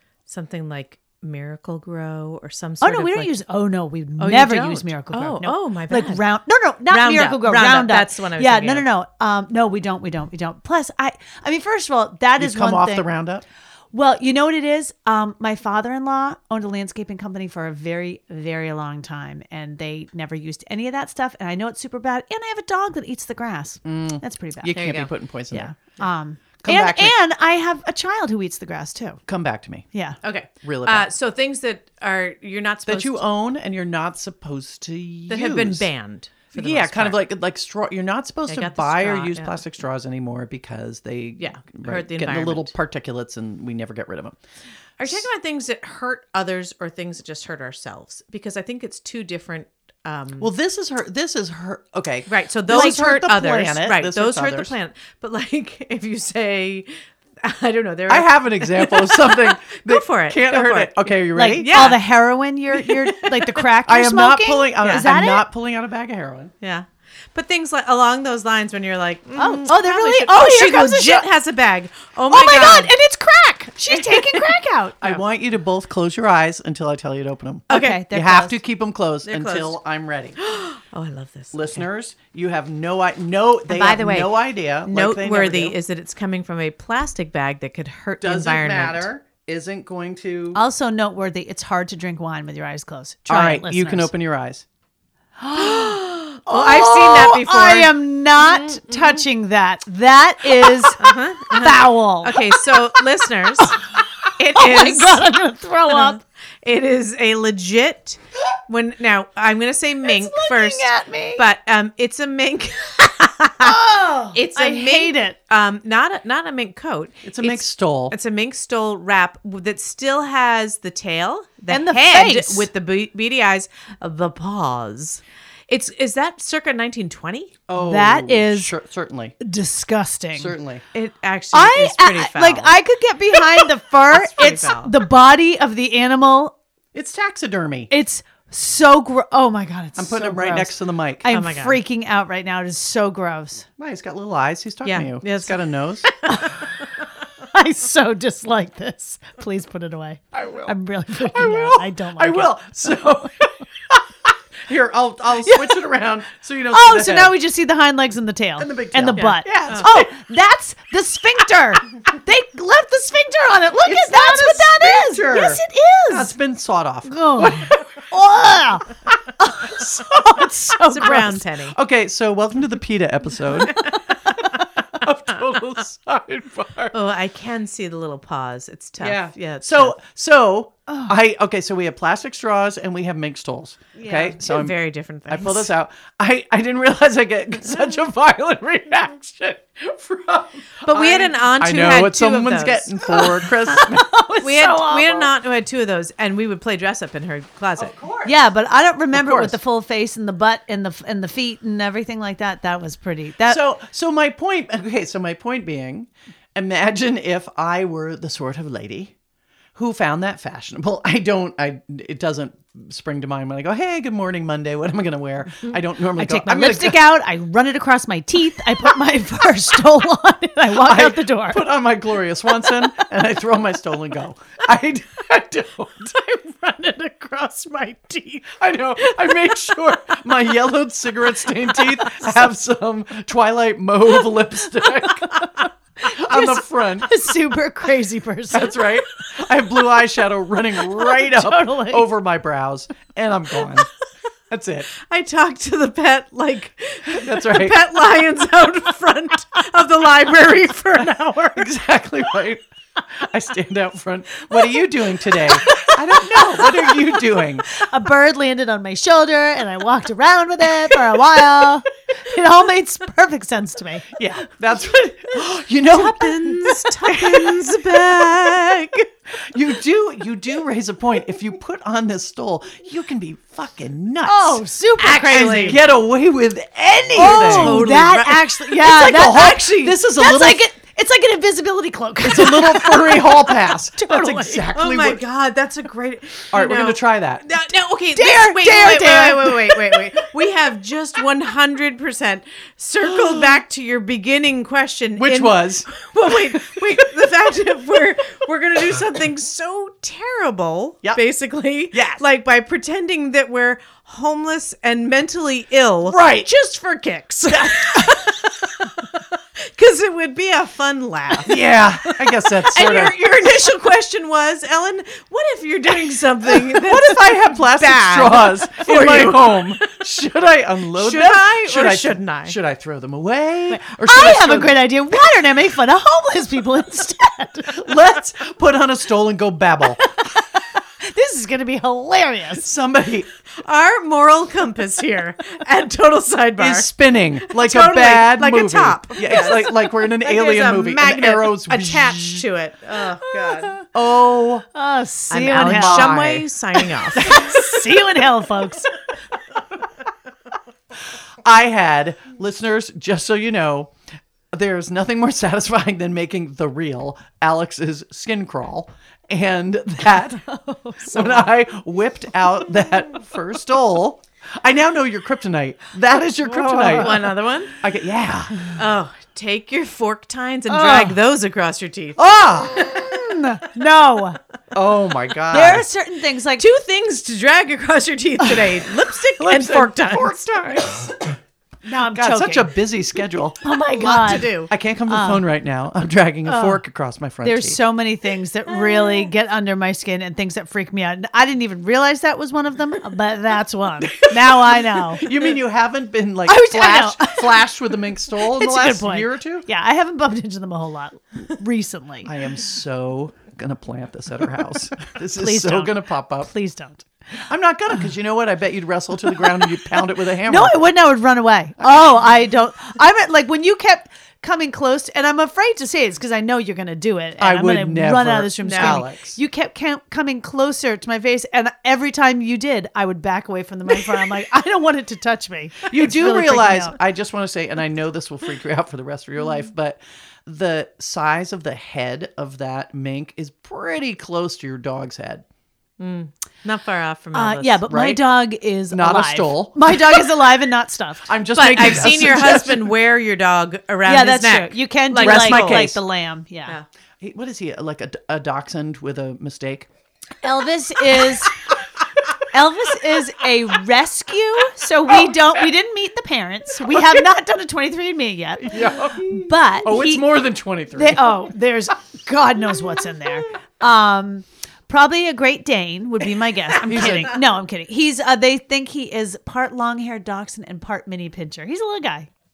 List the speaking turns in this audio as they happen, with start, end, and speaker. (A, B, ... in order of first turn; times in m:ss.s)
0:00.3-0:03.3 A
0:02.8-0:13.1 B
0:04.2-0:06.2 A
0:06.9-0:08.8 A
0:12.4-0:13.4 C
0:13.9-0:25.0 B
0:23.8-0:25.7 C
0:24.7-0:25.1 A
0:25.5-0:29.2 B
0:26.6-0:27.1 C
0:29.3-0:29.8 C
0:29.9-0:30.2 B
0:30.2-0:33.2 A
0:30.6-0:31.1 C
0:32.8-0:35.9 C
0:35.3-0:37.2 A
0:36.5-0:44.4 C
0:38.5-0:39.6 A
0:41.4-0:42.7 A
0:45.0-0:50.5 A
0:50.4-0:54.7 C
0:52.3-0:56.9 A
0:57.4-1:02.0 A
0:58.1-1:02.0 C
1:01.3-1:05.4 B
1:03.1-1:03.6 A
1:03.8-1:06.5 C
1:06.6-1:12.9 A
1:09.4-1:11.3 B
1:12.3-1:15.0 B
1:13.9-1:14.5 A
1:15.0-1:20.4 C
1:17.7-1:18.6 B
1:17.7-1:18.0 A
1:19.2-1:19.8 A
1:20.4-1:21.8 A
1:21.5-1:25.8 C
1:23.7-1:29.1 A
1:28.2-1:30.6 C
1:30.5-1:34.1 B
1:33.3-1:34.6 C
1:35.4-1:42.8 B
1:35.6-1:39.1 A
1:41.0-1:43.8 A
1:44.4-1:45.2 A
1:44.5-1:46.2 B
1:45.9-2:07.5 A
1:50.0-1:51.4 B
1:53.6-1:55.4 B
1:57.2-1:58.2 C
2:01.7-2:02.7 B
2:07.7-2:09.4 C
2:07.8-2:08.7 B
2:09.4-2:10.6 B
2:10.3-2:10.8 C
2:10.9-2:12.8 A
2:11.5-2:16.5 B
2:13.4-2:15.0 A
2:16.9-2:17.9 C
2:17.9-2:23.7 B
2:20.0-2:21.3 C
2:21.3-2:21.8 A
2:23.8-2:26.1 C
2:24.8-2:25.6 A
2:26.2-2:26.6 B
2:27.4-2:32.5 B
2:30.3-2:37.4 C
2:35.4-2:35.8 B
2:36.7-2:46.3 B
2:38.6-2:40.1 C
2:39.1-2:39.9 A
2:43.8-2:47.8 C
2:47.1-2:48.9 B
2:49.4-2:51.4 B
2:49.6-2:53.9 C
2:50.9-2:51.8 A
2:54.4-2:56.9 C
2:56.9-3:00.0 A
2:59.0-3:04.8 C
3:00.9-3:01.1 B
3:04.0-3:04.3 B
3:04.1-3:05.7 A
3:05.3-3:14.1 C
3:10.8-3:13.0 A
3:13.1-3:15.3 B
3:14.4-3:17.9 A
3:17.8-3:18.4 C
3:18.2-3:23.6 B
3:19.1-3:19.6 C
3:23.4-3:29.1 C
3:29.7-3:37.1 C
3:36.1-3:41.7 B
3:40.7-3:46.6 C
3:47.2-3:48.1 A
3:48.4-3:57.2 C
3:56.0-3:58.9 B
3:58.5-4:03.9 C
4:00.8-4:02.1 B
4:04.5-4:04.9 C
4:05.0-4:11.7 A
4:07.1-4:07.8 C
4:11.5-4:17.7 C
4:15.7-4:17.1 B
4:17.7-4:24.1 B
4:24.1-4:28.7 C
4:26.0-4:29.1 A
4:29.4-4:38.0 C
4:34.2-4:35.8 B
4:35.0-4:35.8 A
4:37.2-4:44.7 B
4:37.2-4:38.7 A
4:38.8-4:40.6 C
4:42.2-4:45.2 C
4:44.7-5:08.5 A
4:46.5-4:47.5 C
4:48.1-4:50.1 B
4:55.2-4:57.0 C
5:01.9-5:02.2 C
5:06.1-5:06.5 C
5:07.4-5:08.3 C
5:09.6-5:19.9 A
5:11.4-5:13.3 C
5:16.4-5:24.8 C
5:20.9-5:22.6 A
5:23.7-5:27.9 B
5:27.7-5:30.0 C
5:31.0-5:32.7 B
5:32.6-5:33.3 C
5:33.6-5:36.9 A
5:36.6-5:42.4 C
5:37.4-5:43.8 A
5:43.8-5:44.6 C
5:44.7-5:46.2 B
5:45.3-5:46.5 C
5:45.4-5:47.4 A
5:47.1-5:48.0 C
5:47.2-5:48.9 B
5:51.4-5:53.9 C
5:54.5-6:00.4 C
6:00.4-6:01.4 B
6:01.0-6:08.7 C
6:06.6-6:07.8 A
6:06.6-6:07.3 B
6:08.7-6:12.2 A
6:10.7-6:11.2 B
6:12.2-6:13.1 C
6:12.9-6:14.4 B
6:14.7-6:15.8 C
6:15.5-6:16.7 B
6:16.6-6:20.4 A
6:19.4-6:21.4 C
6:21.8-6:22.8 B
6:22.1-6:23.6 C
6:23.6-6:25.4 B
6:23.9-6:24.7 A
6:24.3-6:27.8 C
6:26.4-6:26.8 B
6:27.4-6:35.3 B
6:34.0-6:39.7 C
6:36.4-6:37.7 B
6:38.3-6:42.3 B
6:42.2-6:46.5 C
6:45.3-6:47.0 B
6:47.4-6:50.9 C
6:50.4-7:07.0 B
6:57.4-6:59.4 C
6:58.6-6:59.0 A
7:05.9-7:15.4 C
7:16.0-7:17.8 A
7:17.3-7:21.3 B
7:17.9-7:18.3 C
7:18.9-7:20.3 C
7:21.2-7:22.9 C
7:21.5-7:25.9 A
7:24.0-7:26.8 B
7:25.2-7:26.0 C
7:27.2-7:29.9 C
7:30.4-7:31.6 B
7:32.5-7:40.3 B
7:36.9-7:37.2 C
7:38.6-7:41.4 C
7:40.9-7:52.3 B
7:46.8-7:47.4 C